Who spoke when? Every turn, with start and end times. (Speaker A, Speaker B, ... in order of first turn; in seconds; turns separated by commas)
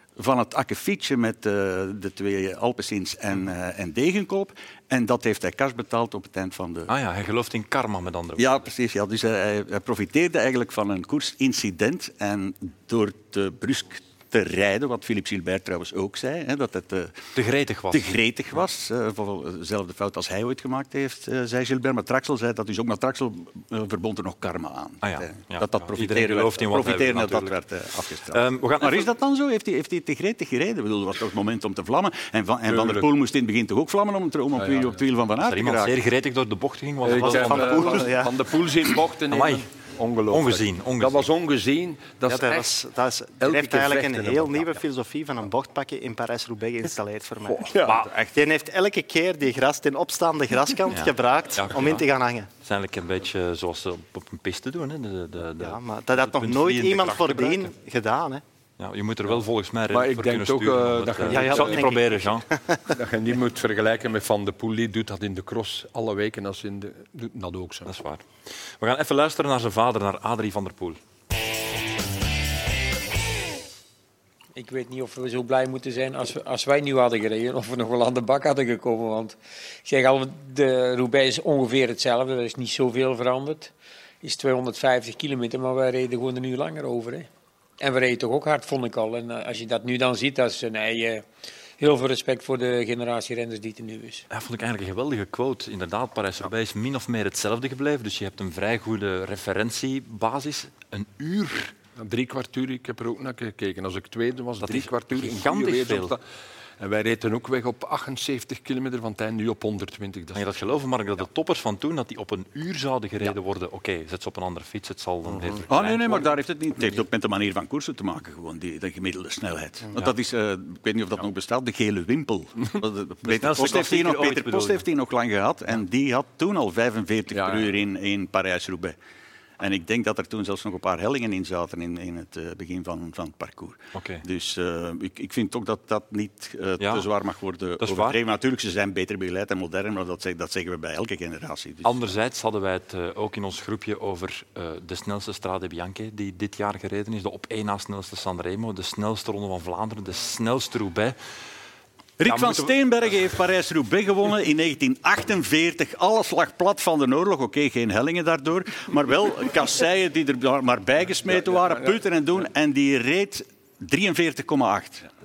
Speaker A: 0.2-6.9, Speaker B: 6.9-8.7, Speaker A: 8.4-17.2, Speaker B: 17.4-18.1, Speaker A: 17.9-36.0, Speaker B: 25.0-27.6, Speaker B: 28.3-29.1, Speaker C: 32.7-33.1, Speaker C: 34.6-35.0, Speaker B: 35.4-38.1, Speaker C: 37.0-42.8, Speaker D: 37.2-38.4, Speaker B: 39.3-39.6, Speaker B: 40.3-41.3, Speaker D: 42.3-47.7, Speaker C: 43.4-44.8, Speaker C: 47.5-48.1, Speaker A: 47.9-48.3, Speaker D: 48.3-52.5, Speaker B: 50.9-52.0, Speaker B: 52.6-57.7, Speaker D: 55.6-58.4, Speaker B: 58.8-62.5, Speaker C: 59.9-62.0, Speaker D: 61.3-62.9, Speaker C: 62.9-67.9, Speaker B: 67.9-68.2, Speaker B: 68.8-71.0, Speaker E: 74.5-83.7, Speaker E: 84.2-87.3, Speaker E: 87.8-91.2, Speaker E: 91.8-94.3, Speaker B: 94.3-101.7, Speaker C: 102.0-106.2, Speaker B: 104.6-106.2, Speaker C: 106.8-110.5, Speaker B: 110.3-116.3, Speaker A: 115.7-129.0, Speaker B: 123.3-124.8, Speaker C: 127.3-127.8, Speaker A: 129.6-141.9, Speaker B: 133.9-134.2, Speaker B: 136.8-137.1, Speaker B: 137.8-138.2, Speaker B: 141.8-151.2, Speaker A: 152.2-165.1, Speaker B: 152.3-152.7, Speaker C: 161.3-162.0